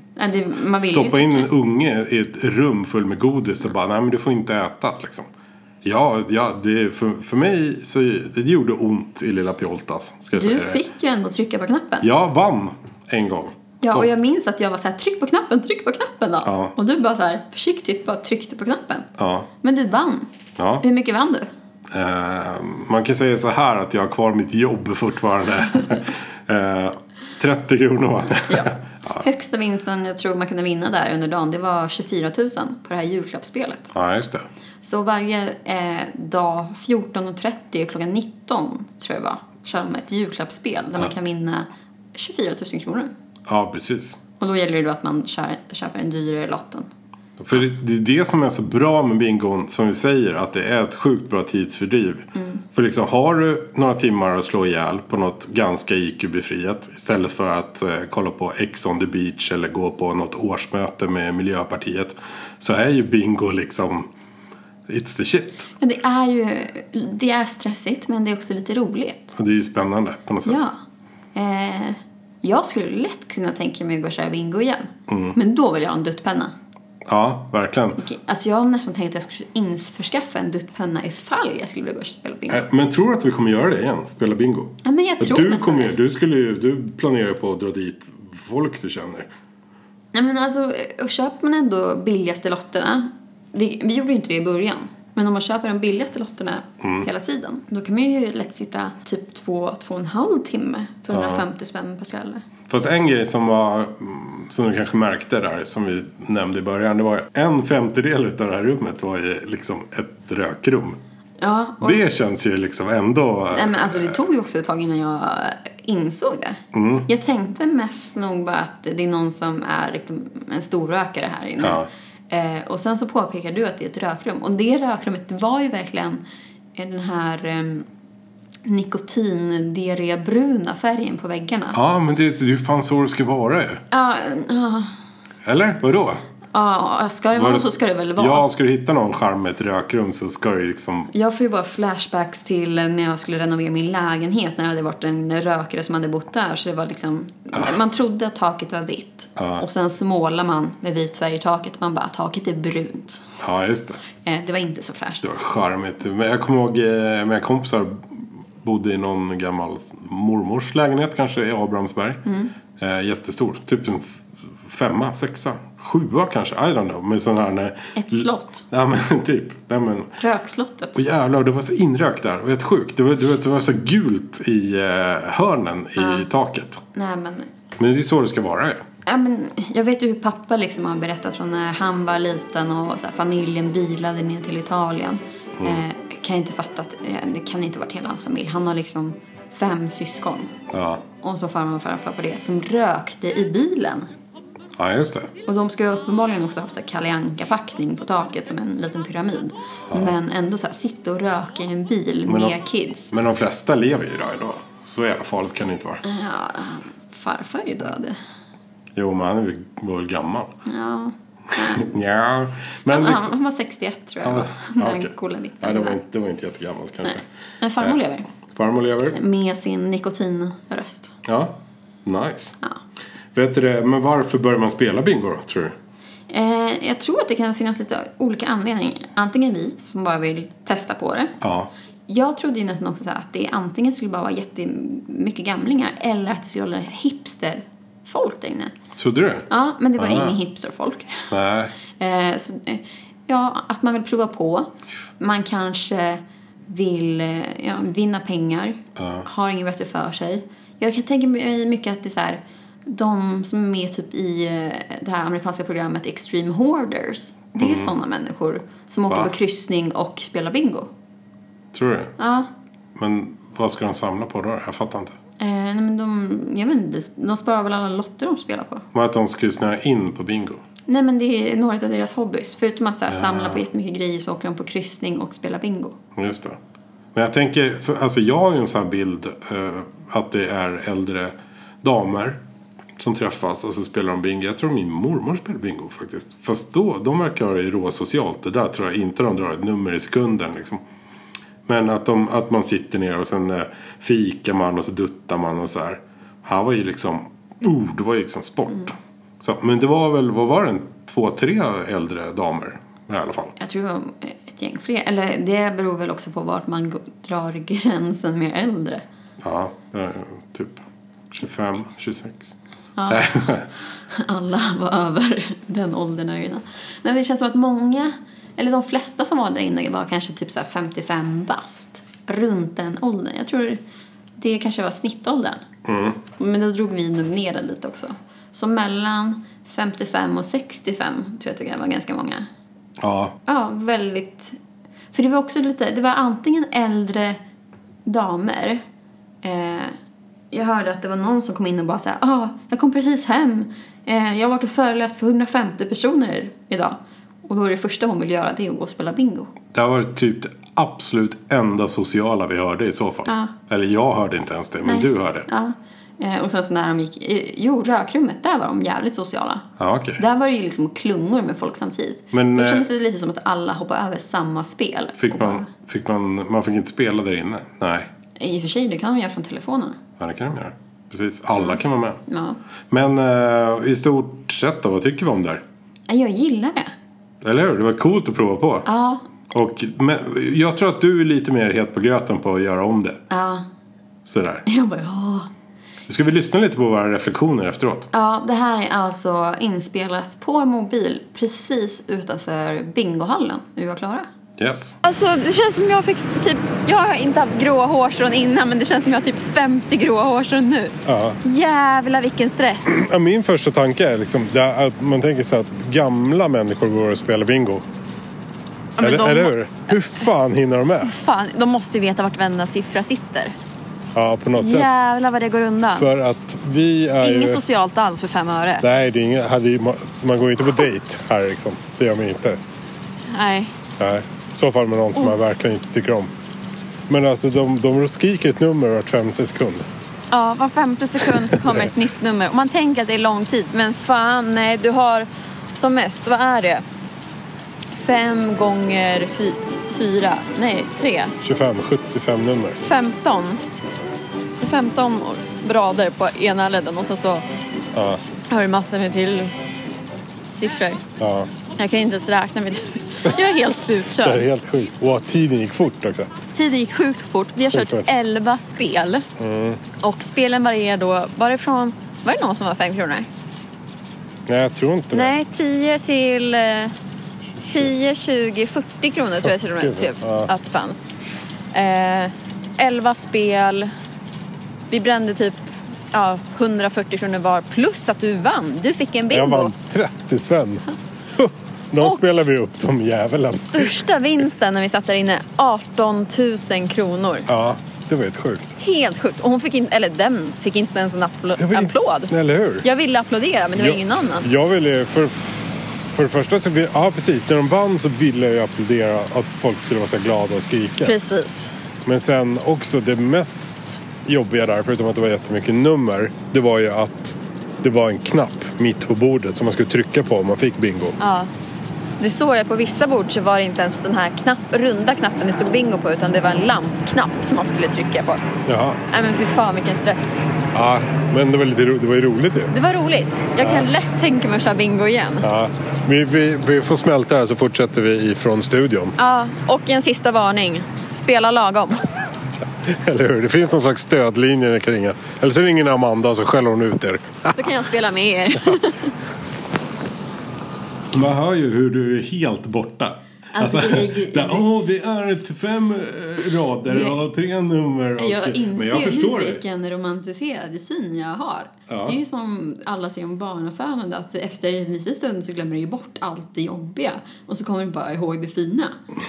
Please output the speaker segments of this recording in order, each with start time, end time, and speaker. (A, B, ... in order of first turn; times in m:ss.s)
0:00.2-0:01.5 A
0:00.8-0:05.3 B
0:05.8-0:10.8 B
0:10.3-0:12.1 A
0:12.0-0:14.1 B
0:13.8-0:19.1 A
0:16.4-0:16.7 B
0:19.2-0:19.5 B
0:19.6-0:20.3 A
0:20.6-0:20.8 B
0:20.8-0:21.5 A
0:21.9-0:29.3 B
0:28.5-0:33.9 A
0:33.9-0:34.5 B
0:34.8-0:43.1 A
0:43.5-0:44.2 B
0:44.4-0:46.9 A
0:47.4-1:04.1 B
0:52.4-0:52.6 A
1:04.9-1:05.7 B
1:05.8-1:09.4 A
1:09.4-1:10.6 B
1:10.4-1:10.8 A
1:11.4-1:16.5 A
1:15.1-1:15.4 B
1:17.1-1:18.0 B
1:18.0-1:22.6 A
1:22.5-1:29.3 B
1:24.8-1:26.0 A
1:30.1-1:42.4 A
1:36.8-1:37.1 B
1:41.1-1:41.4 B
1:42.7-1:51.0 B
1:51.4-1:52.0 A
1:51.8-1:54.2 B
1:53.5-2:06.2 A
1:56.7-1:57.1 B
2:01.6-2:01.9 B
2:06.8-2:07.9 A
2:08.6-2:11.8 A
2:11.7-2:13.8 B
2:13.9-2:14.9 A
2:15.4-2:16.2 B
2:16.5-2:18.5 A
2:17.4-2:21.1 B
2:21.1-2:33.4 A
2:29.4-2:29.6 B
2:33.4-2:34.0 B
2:34.2-2:35.2 A
2:35.2-2:42.2 B
2:42.2-2:42.5 A
2:42.8-2:50.2 B
2:48.0-2:48.6 A
2:50.2-2:51.0 A
2:51.0-2:56.8 B
2:56.0-2:56.3 A
2:56.9-2:57.5 A
2:57.8-2:58.8 B
2:59.1-3:10.5 A
3:05.6-3:05.8 B
3:10.7-3:11.0 B
3:11.2-3:14.1 A
3:14.8-3:15.3 B
3:15.5-3:23.1 A
3:19.9-3:20.1 B
3:22.3-3:22.6 B
3:23.1-3:26.0 B
3:26.0-3:28.2 A
3:29.0-3:30.5 B
3:30.7-3:31.9 A
3:31.6-3:33.4 B
3:32.9-3:36.0 A
3:34.2-3:37.2 B
3:37.0-3:38.3 A
3:38.5-3:39.2 B
3:39.1-3:41.1 A
3:41.2-3:42.6 B
3:43.4-3:45.8 B
3:46.3-3:51.4 A
3:51.4-3:51.7 B
3:52.1-3:58.8 A
3:59.0-4:00.4 B
3:59.5-4:01.3 A
4:01.3-4:01.8 B
4:02.0-4:20.9 A
4:09.0-4:09.3 B
4:17.6-4:17.9 B
4:21.7-4:22.3 B
4:22.2-4:22.5 A
4:23.0-4:25.2 B
4:25.4-4:28.9 A
4:28.9-4:30.6 B
4:30.9-4:36.0 A
4:33.1-4:33.6 B
4:36.1-4:36.6 B
4:37.1-4:42.4 B
4:43.0-4:50.8 B
4:51.7-5:03.5 B
5:03.6-5:09.0 A
5:09.4-5:12.5 B
5:13.0-5:23.8 A
5:13.1-5:13.7 B
5:24.4-5:25.6 A
5:25.8-5:26.2 B
5:26.4-5:32.5 A
5:33.0-5:33.4 B
5:33.5-5:34.6 A
5:35.1-5:37.4 A
5:38.1-5:38.8 A
5:39.4-5:40.0 A
5:40.5-5:49.5 A
5:49.7-5:55.5 B
5:53.3-5:53.5 A
5:54.8-5:59.6 A
5:59.8-6:00.2 B
6:00.2-6:05.7 A
6:02.3-6:02.9 B
6:05.2-6:08.1 B
6:08.4-6:10.0 A
6:10.2-6:12.2 B
6:11.6-6:12.6 A
6:12.9-6:15.6 B
6:16.1-6:16.9 A
6:17.4-6:18.9 B
6:18.9-6:19.2 A
6:19.5-6:23.2 B
6:23.3-6:23.6 A
6:24.3-6:24.6 B
6:24.7-6:25.5 A
6:26.1-6:28.1 B
6:28.1-6:34.3 A
6:34.6-6:35.0 B
6:35.0-6:43.0 A
6:41.0-6:41.4 B
6:42.9-6:47.9 B
6:49.0-6:50.3 A
6:49.0-6:51.1 B
6:51.0-6:53.6 A
6:54.1-6:54.9 B
6:54.6-6:56.1 A
6:55.9-6:57.6 B
6:57.2-6:58.8 A
6:58.8-7:02.6 B
7:03.3-7:03.7 A
7:04.0-7:06.3 B
7:07.1-7:09.9 B
7:10.3-7:16.8 A
7:11.4-7:11.9 B
7:17.9-7:21.4 A
7:21.4-7:22.8 B
7:22.8-7:23.6 A
7:24.6-7:27.5 A
7:27.9-7:28.2 B
7:28.5-7:29.5 A
7:30.5-7:31.0 A
7:31.2-7:31.5 B
7:31.8-7:34.4 A
7:34.1-7:36.3 B
7:36.5-7:39.3 A
7:37.7-7:38.1 B
7:39.4-7:39.8 B
7:40.0-7:43.3 A
7:44.5-7:45.3 B
7:45.1-7:46.9 A
7:47.6-7:47.9 B
7:47.7-7:51.1 A
7:49.4-7:50.5 B
7:51.7-7:53.9 A
7:54.9-7:59.7 A
7:59.3-8:04.0 B
8:02.0-8:02.4 A
8:03.5-8:07.5 A
8:07.5-8:08.8 B
8:08.8-8:14.5 A
8:11.6-8:12.9 B
8:13.7-8:15.5 B
8:16.1-8:21.1 B
8:21.0-8:21.7 A
8:22.0-8:31.2 B
8:31.2-8:31.5 A
8:32.2-8:38.4 A
8:38.7-8:39.0 B
8:39.1-8:40.4 A
8:40.7-8:42.7 B
8:42.7-8:45.5 A
8:43.6-8:43.9 B
8:45.4-8:49.1 B
8:49.2-8:52.0 A
8:52.8-8:57.7 B
8:57.5-8:59.1 A
9:01.1-9:09.6 B
9:03.5-9:04.7 A
9:06.9-9:07.2 A
9:08.2-9:19.0 A
9:11.9-9:12.2 B